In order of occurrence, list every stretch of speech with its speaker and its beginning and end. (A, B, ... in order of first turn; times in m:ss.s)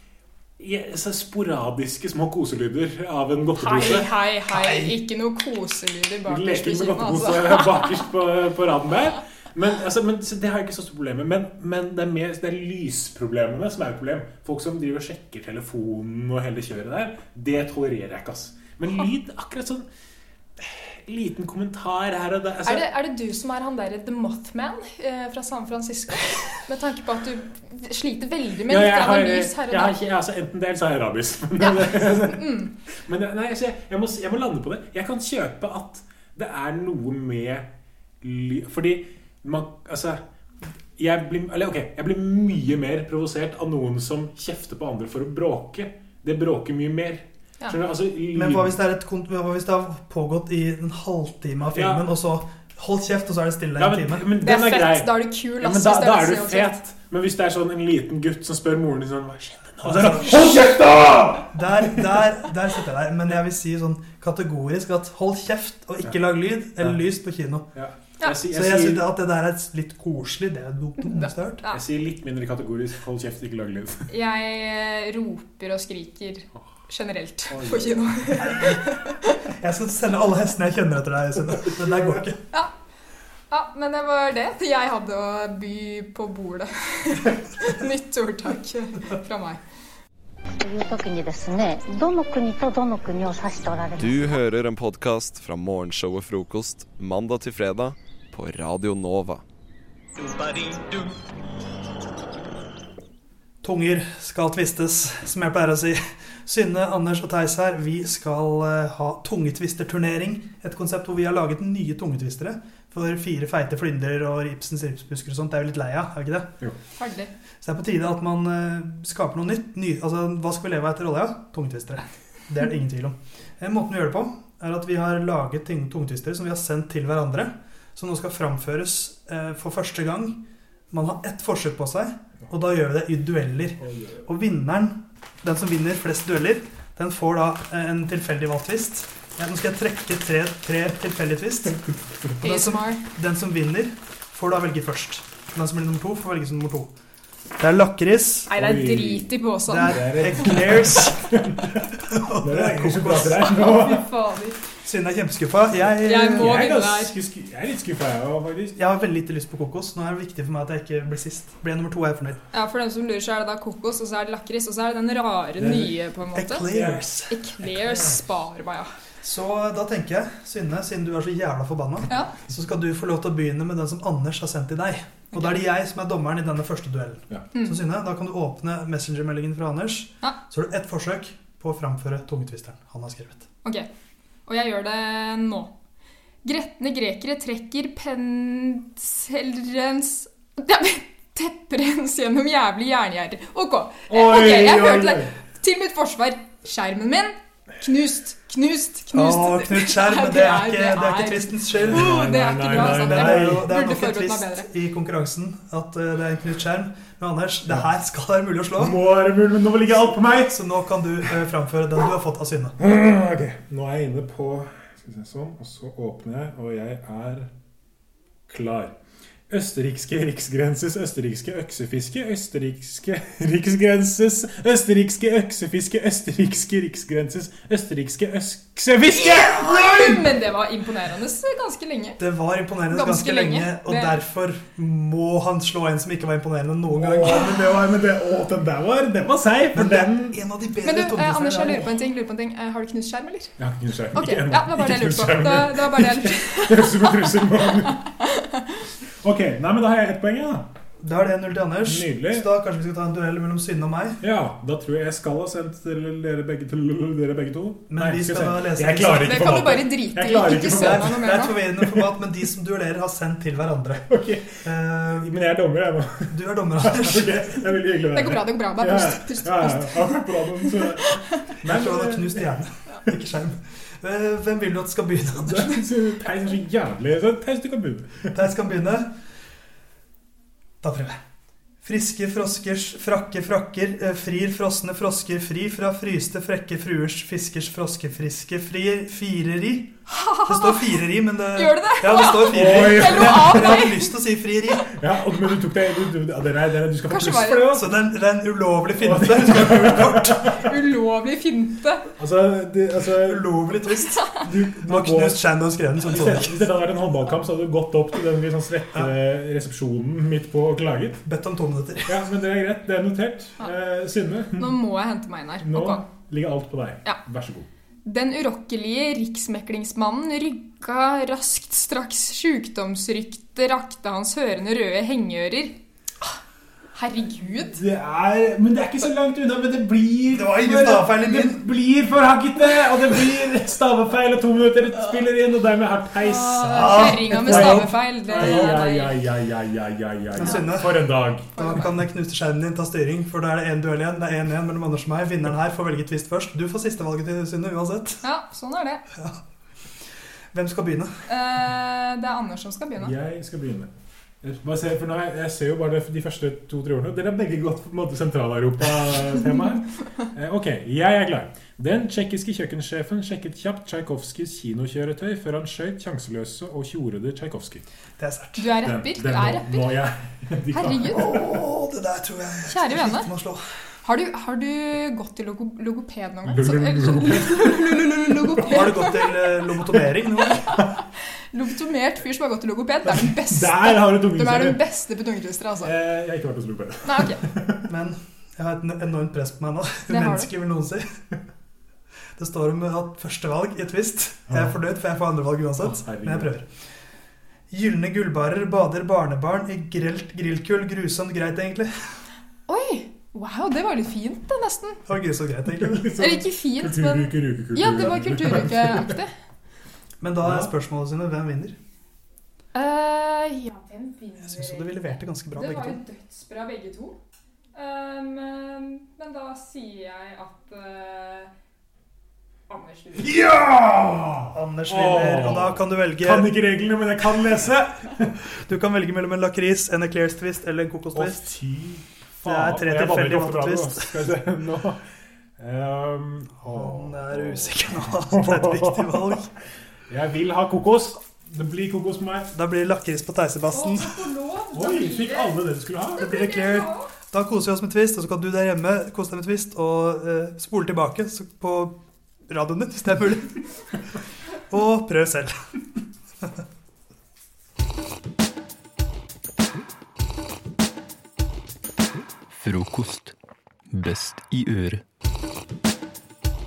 0:00.6-0:04.1 A
0:03.6-0:07.9 B
0:04.5-0:04.9 C
0:06.3-0:19.8 A
0:20.6-0:22.9 A
0:22.6-0:30.0 B
0:28.7-0:37.7 A
0:31.6-0:32.7 B
0:38.2-0:40.2 A
0:41.0-0:48.8 A
0:48.3-0:54.3 C
0:51.7-0:52.0 A
0:53.8-1:02.2 A
0:54.4-0:56.8 B
0:59.8-1:00.7 C
1:01.5-1:07.7 C
1:07.7-1:09.0 A
1:08.5-1:11.6 C
1:11.0-1:11.8 B
1:11.7-1:14.1 A
1:14.1-1:19.4 B
1:17.5-1:18.4 A
1:18.4-1:18.8 C
1:19.6-1:22.4 C
1:23.5-1:29.6 B
1:30.6-1:34.4 D
1:34.0-1:39.4 E
1:43.6-1:56.5 C
1:57.0-1:57.3 B
1:57.6-2:10.4 C
2:10.9-2:21.8 C
2:13.8-2:14.2 A
2:22.4-2:26.9 C
2:22.4-2:23.0 B
2:27.6-2:28.5 C
2:28.5-2:30.5 B
2:28.5-2:34.1 A
2:29.7-2:31.4 C
2:32.0-2:33.4 C
2:33.4-2:34.6 B
2:34.8-2:36.6 C
2:36.0-2:37.1 B
2:36.2-2:38.8 A
2:38.8-2:42.4 C
2:42.5-2:46.7 B
2:45.6-2:45.9 A
2:46.3-2:47.3 C
2:46.7-2:47.0 A
2:47.3-2:48.9 B
2:49.2-3:03.4 C
2:55.3-2:55.6 B
2:57.5-2:57.8 B
3:04.5-3:05.7 B
3:06.4-3:24.7 B
3:14.1-3:15.3 A
3:19.1-3:29.0 C
3:21.8-3:23.7 A
3:28.8-3:30.6 A
3:30.5-3:32.8 C
3:32.8-3:37.5 A
3:38.5-3:38.9 A
3:39.5-3:50.4 A
3:49.2-3:52.2 B
3:52.2-3:57.7 C
3:52.9-3:54.1 B
3:56.9-4:00.4 A
3:59.7-4:01.9 C
4:00.8-4:03.5 B
4:03.6-4:08.0 A
4:04.1-4:07.3 B
4:07.9-4:08.8 B
4:09.2-4:10.7 A
4:11.0-4:14.2 C
4:11.8-4:12.5 A
4:14.2-4:22.1 A
4:17.9-4:19.7 C
4:19.2-4:21.6 B
4:20.7-4:24.1 C
4:24.1-4:32.5 A
4:24.6-4:25.3 C
4:26.3-4:27.5 C
4:28.1-4:31.5 B
4:31.6-4:35.8 C
4:35.4-4:38.3 A
4:38.3-4:39.1 C
4:40.8-4:41.2 C
4:41.8-4:54.9 C
4:50.1-4:51.0 B
4:51.5-4:54.1 B
4:52.5-4:53.9 A
4:54.9-4:57.9 A
4:57.1-4:57.8 B
4:57.7-5:00.6 C
4:59.0-5:00.7 A
5:00.6-5:02.0 B
5:02.2-5:03.5 A
5:03.2-5:06.7 C
5:04.4-5:05.4 A
5:06.0-5:11.2 A
5:11.2-5:12.2 C
5:12.1-5:14.8 A
5:14.6-5:16.0 B
5:15.6-5:17.7 A
5:18.0-5:25.7 B
5:26.9-5:27.8 B
5:27.7-5:41.5 A
5:30.3-5:31.6 C
5:36.2-5:39.2 B
5:36.7-5:38.8 C
5:40.4-5:41.0 C
5:40.4-5:40.7 B
5:41.5-5:41.9 B
5:41.5-5:48.2 C
5:48.2-5:49.0 B
5:49.1-5:49.4 C
5:50.5-5:51.1 C
5:51.3-5:53.1 B
5:53.0-5:53.9 A
5:54.4-6:07.8 A
6:08.2-6:08.7 C
6:08.6-6:09.9 B
6:08.8-6:11.5 A
6:10.7-6:11.3 B
6:11.1-6:13.6 C
6:12.7-6:13.3 B
6:14.0-6:19.3 B
6:16.4-6:18.8 A
6:18.6-6:20.7 C
6:20.5-6:25.9 B
6:23.1-6:24.8 A
6:25.8-6:27.8 A
6:27.0-6:27.4 B
6:27.9-6:31.1 C
6:30.1-6:30.5 B
6:32.4-6:36.6 C
6:34.5-6:34.7 A
6:35.8-6:36.5 A
6:37.7-6:41.9 C
6:42.7-6:45.0 B
6:45.1-6:46.1 C
6:45.7-6:49.2 A
6:46.2-6:49.3 B
6:50.2-6:51.8 C
6:50.4-6:50.7 A
6:52.7-6:57.2 B
6:54.4-6:56.0 C
6:57.7-7:01.5 B
7:02.7-7:03.3 B
7:03.2-7:08.4 A
7:04.5-7:06.5 C
7:08.5-7:11.5 C
7:11.1-7:15.0 A
7:12.4-7:14.3 C
7:15.6-7:19.4 A
7:16.6-7:19.5 C
7:20.1-7:22.5 A
7:22.5-7:24.2 C
7:23.7-7:25.6 B
7:24.7-7:26.4 A
7:26.2-7:27.1 B
7:26.2-7:33.6 C
7:34.7-7:35.5 C
7:42.5-7:43.3 F
7:43.9-7:45.0 F